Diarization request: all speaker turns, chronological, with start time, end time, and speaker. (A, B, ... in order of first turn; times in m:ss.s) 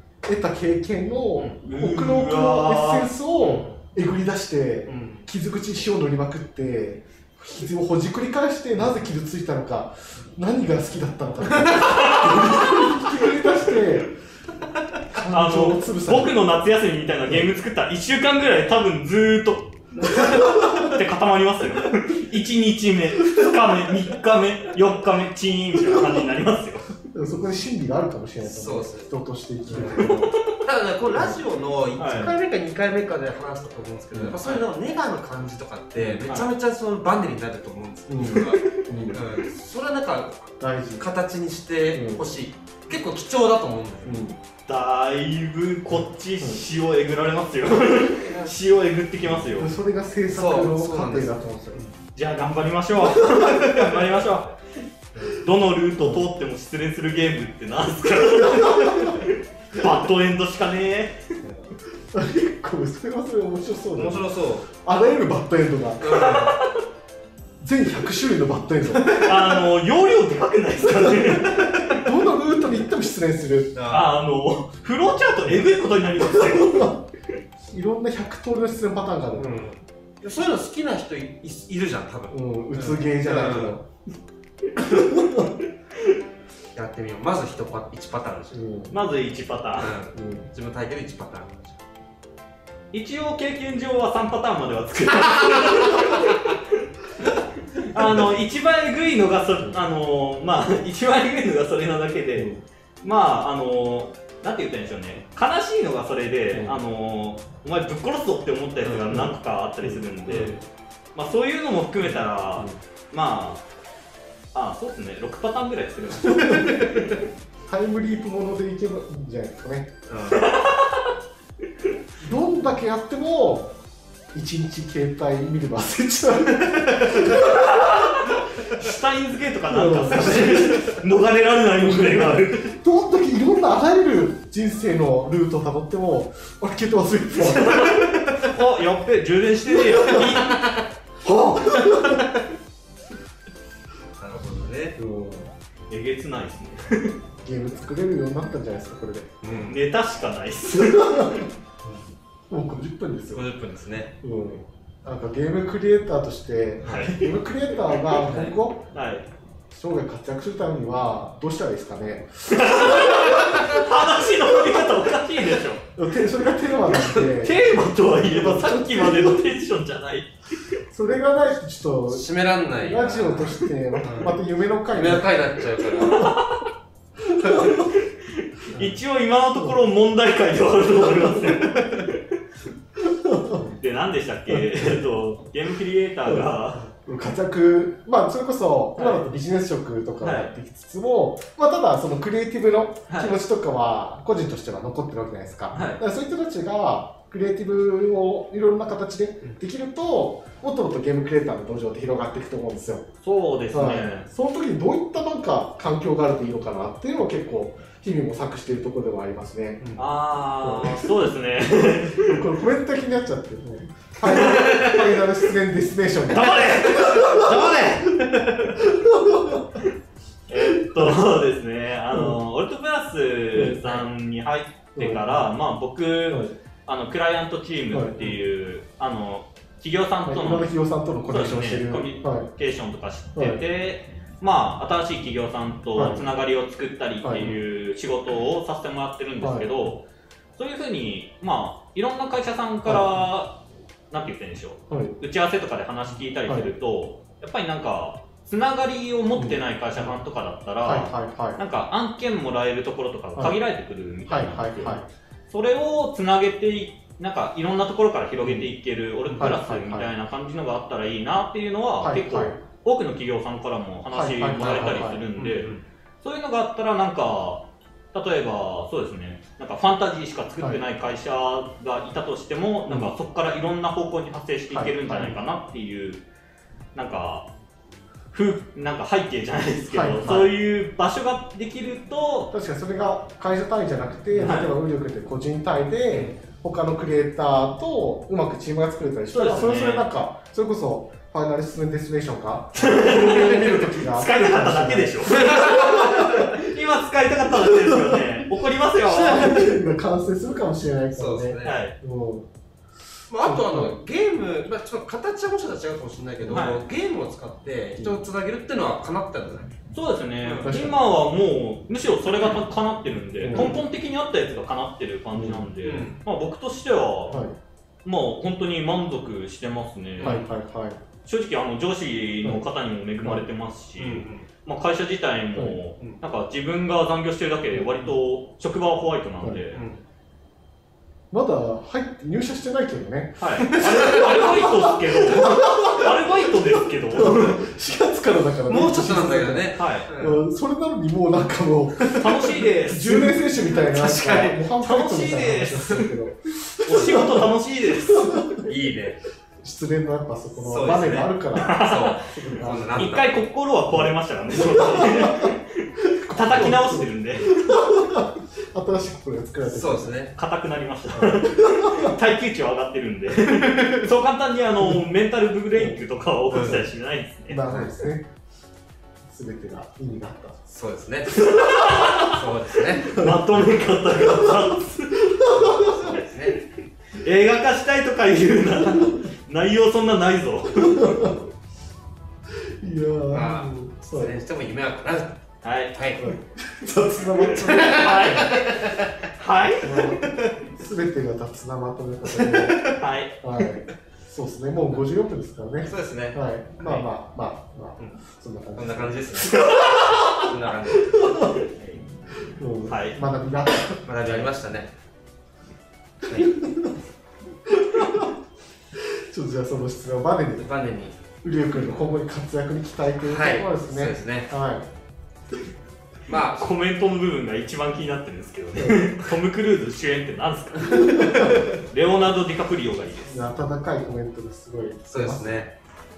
0:00.2-0:14.1 A
0:01.6-0:03.1 B
0:03.4-0:03.8 C
0:04.9-0:05.3 C
0:11.5-0:11.8 C
0:11.8-0:12.9 B
0:15.1-0:16.4 A
0:15.3-0:26.9 B
0:20.0-0:20.4 C
0:20.6-0:20.8 A
0:27.1-0:30.4 A
0:28.4-0:29.1 C
0:29.7-0:30.0 C
0:29.8-0:30.4 B
0:30.6-0:44.2 C
0:31.1-0:31.4 A
0:32.0-0:32.3 B
0:34.1-0:34.4 A
0:36.0-0:36.2 A
0:38.1-0:39.2 A
0:38.6-0:38.8 B
0:40.6-0:41.0 A
0:41.9-0:42.2 A
0:44.0-0:44.4 A
0:44.7-0:49.7 B
0:45.9-0:46.6 A
0:48.2-0:48.5 C
0:49.3-0:51.8 A
0:50.3-0:51.9 C
0:52.1-0:54.6 B
0:55.2-1:01.3 B
0:56.0-0:56.2 A
0:58.7-0:59.1 A
1:01.4-1:01.7 C
1:02.1-1:06.5 A
1:04.0-1:04.7 C
1:06.0-1:06.6 C
1:06.1-1:06.7 B
1:07.6-1:09.6 A
1:09.1-1:12.0 B
1:10.8-1:13.7 A
1:11.5-1:11.9 C
1:13.7-1:14.1 C
1:13.9-1:17.0 B
1:16.2-1:16.9 A
1:17.7-1:19.5 A
1:19.3-1:23.8 C
1:22.3-1:23.8 A
1:24.8-1:25.5 A
1:26.7-1:28.7 C
1:28.5-1:29.0 A
1:28.9-1:30.0 B
1:29.8-1:31.8 C
1:30.1-1:30.5 A
1:32.9-1:50.6 B
1:38.0-1:38.3 A
1:42.4-1:42.6 A
1:46.5-1:46.8 A
1:49.8-1:50.5 A
1:51.1-1:53.6 B
1:52.0-1:52.8 A
1:54.5-1:57.2 B
1:56.2-1:57.0 A
1:57.6-1:59.9 A
2:00.1-2:00.6 C
2:00.3-2:01.0 B
2:02.2-2:03.8 A
2:04.3-2:08.0 A
2:07.2-2:12.7 B
2:09.7-2:10.9 A
2:10.2-2:10.5 C
2:11.8-2:18.1 A
2:17.4-2:22.3 B
2:18.1-2:18.5 C
2:20.1-2:20.4 A
2:20.5-2:20.8 C
2:21.6-2:22.2 A
2:24.2-2:25.0 C
2:25.0-2:25.5 A
2:25.9-2:27.2 B
2:27.4-2:29.3 A
2:29.4-2:29.8 C
2:29.7-2:31.5 B
2:30.7-2:31.5 A
2:32.5-2:33.4 A
2:33.3-2:34.2 C
2:34.2-2:38.9 A
2:36.8-2:37.1 C
2:36.8-2:37.3 B
2:38.2-2:38.5 C
2:38.9-2:39.3 B
2:39.7-2:43.3 A
2:42.5-2:45.8 B
2:42.8-2:43.8 C
2:46.0-2:49.5 A
2:46.9-2:47.2 C
2:47.3-2:50.8 B
2:50.9-2:55.4 A
2:52.1-2:54.4 C
2:54.9-2:56.3 C
2:55.9-2:56.7 B
2:57.4-2:57.9 A
2:57.6-3:02.4 B
3:03.1-3:03.8 A
3:03.6-3:06.9 B
3:04.5-3:05.0 A
3:06.3-3:23.0 A
3:09.0-3:09.3 B
3:10.2-3:10.5 B
3:13.1-3:13.4 B
3:15.7-3:16.0 B
3:23.2-3:24.3 B
3:23.7-3:29.8 A
3:29.8-3:30.0 C
3:30.0-3:32.4 B
3:30.6-3:31.3 A
3:32.0-3:37.7 A
3:34.2-3:35.1 B
3:36.3-3:38.6 B
3:36.9-3:38.6 C
3:38.8-3:39.6 A
3:40.5-3:50.7 B
3:40.8-3:41.1 A
3:42.1-3:42.4 A
3:43.5-3:44.0 A
3:45.0-3:45.5 A
3:47.9-3:48.4 A
3:50.2-3:52.5 A
3:51.3-4:00.0 B
3:53.4-3:53.6 A
3:55.9-3:56.2 A
3:57.2-3:57.6 A
3:59.4-3:59.7 A
4:00.6-4:25.7 B
4:02.8-4:03.2 A
4:04.9-4:05.2 A
4:06.4-4:06.7 A
4:09.3-4:10.2 A
4:10.8-4:11.6 A
4:14.2-4:15.1 A
4:19.4-4:20.1 A
4:22.0-4:22.6 A
4:24.1-4:25.2 A
4:24.6-4:25.8 C
4:26.2-4:36.2 B
4:32.9-4:33.1 A
4:34.7-4:35.4 A
4:36.9-4:37.5 B
4:38.3-4:42.5 B
4:39.9-4:40.5 A
4:42.5-4:56.5 A
4:44.4-4:44.7 B
4:46.1-4:46.4 C
4:49.3-4:50.0 B
4:52.8-4:59.7 B
4:55.3-4:56.3 C
4:57.5-4:58.3 A
4:59.0-5:02.5 A
4:59.1-4:59.7 C
5:01.1-5:01.8 C
5:01.6-5:02.0 B
5:03.3-5:09.7 C
5:03.4-5:03.9 A
5:06.5-5:06.8 B
5:09.9-5:17.4 B
5:10.4-5:10.7 C
5:10.6-5:11.0 A
5:13.4-5:13.8 A
5:15.3-5:15.7 A
5:15.8-5:16.2 C
5:17.3-5:17.6 A
5:18.0-5:20.4 B
5:20.2-5:20.4 C
5:20.2-5:21.0 A
5:21.2-5:29.8 B
5:24.0-5:24.5 C
5:25.5-5:25.8 A
5:27.8-5:28.1 A
5:29.7-5:30.0 C
5:31.3-5:47.5 A
5:33.4-5:37.6 B
5:33.6-5:34.2 C
5:38.7-5:40.4 C
5:39.8-5:40.1 B
5:42.1-5:43.4 B
5:43.7-5:44.6 C
5:44.8-5:46.1 B
5:46.7-5:48.5 B
5:46.8-5:47.4 C
5:48.1-5:48.6 A
5:48.6-5:49.2 C
5:49.6-5:53.1 A
5:50.6-5:53.3 C
5:51.6-5:57.8 B
5:53.9-6:00.2 A
5:59.7-6:00.3 C
6:00.4-6:07.6 B
6:01.1-6:02.1 A
6:03.6-6:04.0 C
6:06.5-6:06.8 C
6:07.5-6:08.3 A
6:07.7-6:07.9 C
6:09.2-6:10.6 A
6:10.7-6:13.2 C
6:11.4-6:12.4 B
6:13.0-6:16.2 B
6:13.1-6:13.6 A
6:14.1-6:14.8 A
6:15.4-6:15.9 A
6:15.5-6:16.6 C
6:17.1-6:21.3 B
6:20.7-6:21.4 A
6:22.6-6:24.4 A
6:23.3-6:25.4 C
6:25.6-6:26.0 B
6:25.9-6:26.3 C
6:26.2-6:28.5 A
6:27.4-6:29.1 C
6:27.6-6:30.2 B
6:29.8-6:39.5 A
6:30.2-6:30.6 C
6:32.3-6:33.0 C
6:32.9-6:33.7 B
6:35.8-6:37.0 C
6:38.8-6:42.0 C
6:39.5-6:40.3 B
6:41.1-6:41.5 A
6:42.4-6:44.0 A
6:42.8-6:43.2 B
6:44.0-6:44.9 C
6:46.2-6:46.5 C
6:46.3-6:46.9 A
6:47.7-6:48.3 A
6:49.0-6:50.7 A
6:50.6-6:51.2 C
6:51.4-6:54.8 A
6:53.2-6:54.5 C
6:56.3-6:56.7 C
6:56.6-7:03.4 B
6:58.8-6:59.1 A
7:00.9-7:01.7 A
7:01.1-7:01.5 C
7:03.3-7:05.6 A
7:05.1-7:05.7 C